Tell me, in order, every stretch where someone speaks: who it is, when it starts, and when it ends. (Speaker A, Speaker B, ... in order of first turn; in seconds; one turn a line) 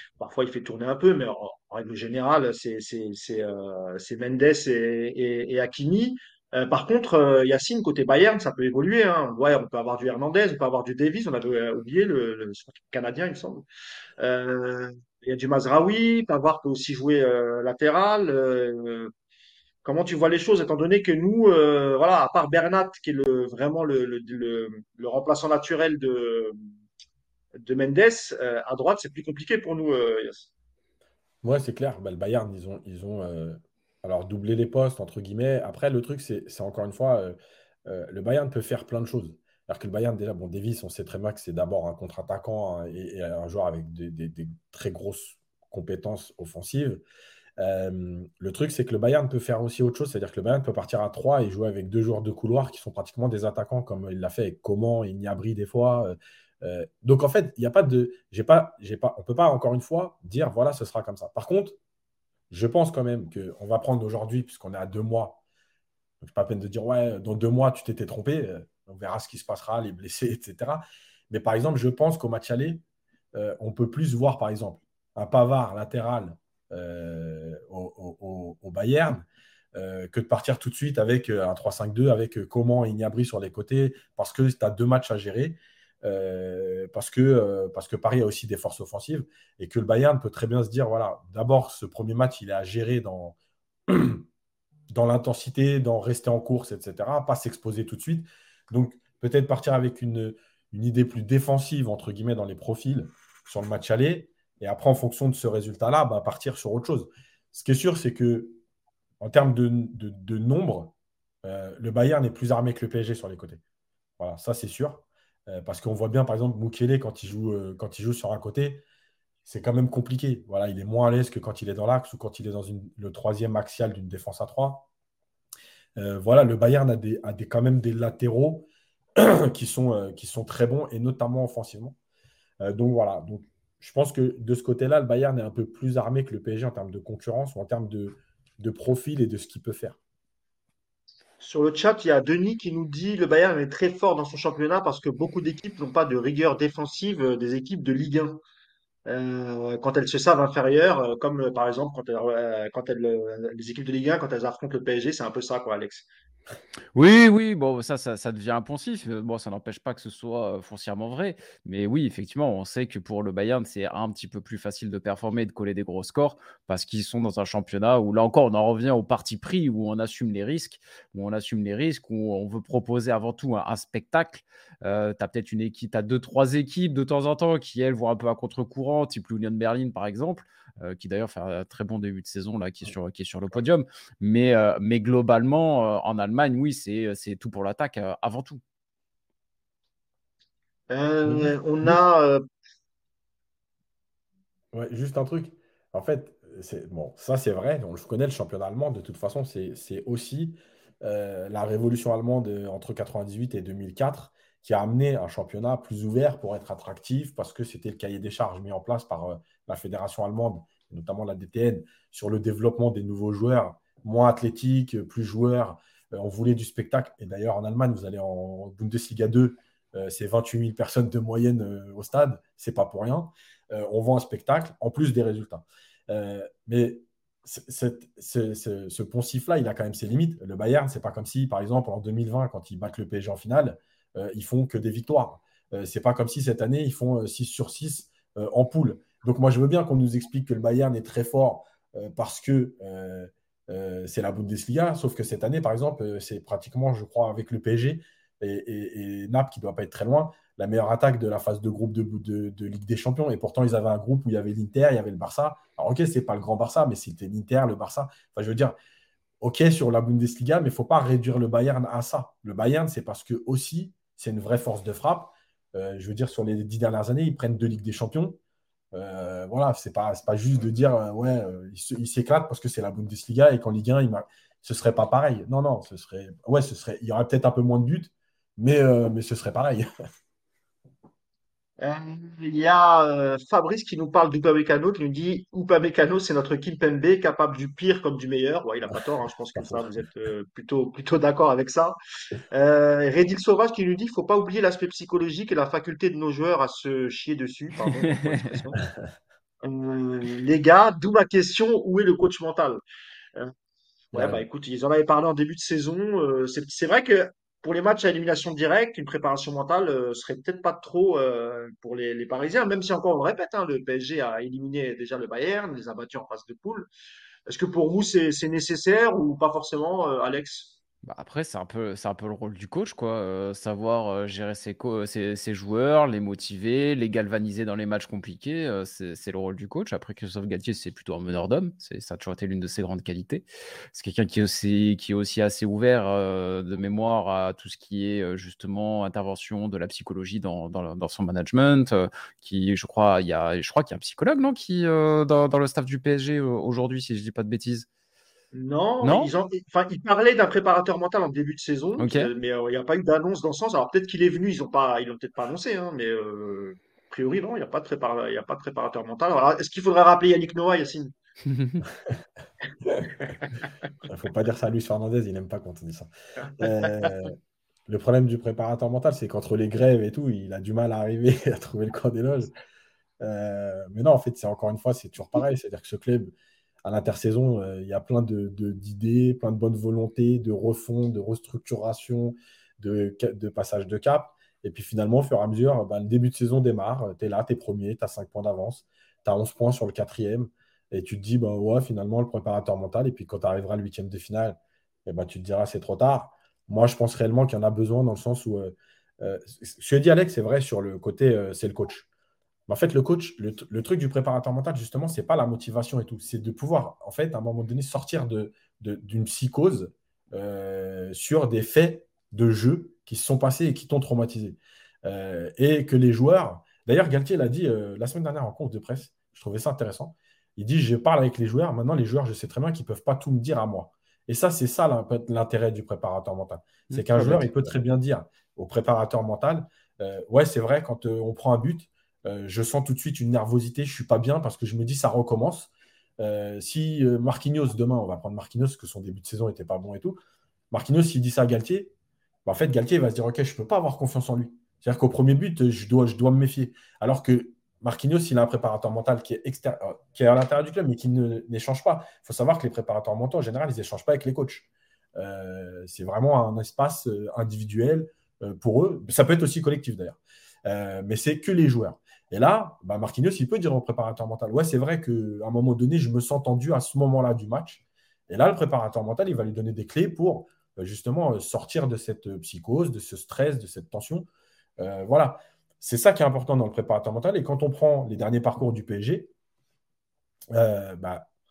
Speaker A: 0.2-13.7
Speaker A: 14.2-19.1
Speaker A: 19.8-26.6
Speaker A: 27.6-30.5
Speaker B: 31.4-47.0
Speaker B: 47.6-61.8
Speaker B: 62.5-65.4
Speaker B: 66.2-72.8
Speaker B: 73.3-94.2
Speaker B: 94.9-108.6
Speaker B: 109.2-113.6
Speaker B: 114.2-118.8
Speaker B: 119.4-124.9
Speaker B: 126.0-132.0
Speaker B: 132.6-140.0
Speaker A: 141.4-148.4
Speaker A: 149.1-156.1
Speaker C: 156.9-188.6
Speaker A: 190.9-192.4
Speaker B: 191.2-192.0
Speaker B: 194.7-258.7
Speaker B: 259.4-268.4
Speaker B: 268.9-279.9
Speaker A: 281.8-291.9
Speaker B: 289.6-289.9
Speaker A: 292.5-298.8
Speaker C: 298.1-298.5
Speaker A: 299.6-302.8
Speaker B: 304.1-304.4
Speaker A: 304.1-316.9
Speaker A: 317.5-320.7
Speaker C: 321.0-347.9
Speaker A: 348.5-361.1
Speaker C: 349.0-349.3
Speaker C: 352.0-352.3
Speaker C: 361.4-361.8
Speaker A: 363.2-363.7
Speaker B: 364.1-367.3
Speaker A: 366.6-367.1
Speaker B: 367.9-372.5
Speaker B: 373.2-402.1
Speaker B: 402.7-440.2
Speaker C: 426.9-427.5
Speaker B: 440.7-441.9
Speaker B: 442.4-474.3
Speaker B: 474.8-479.3
Speaker B: 480.5-481.3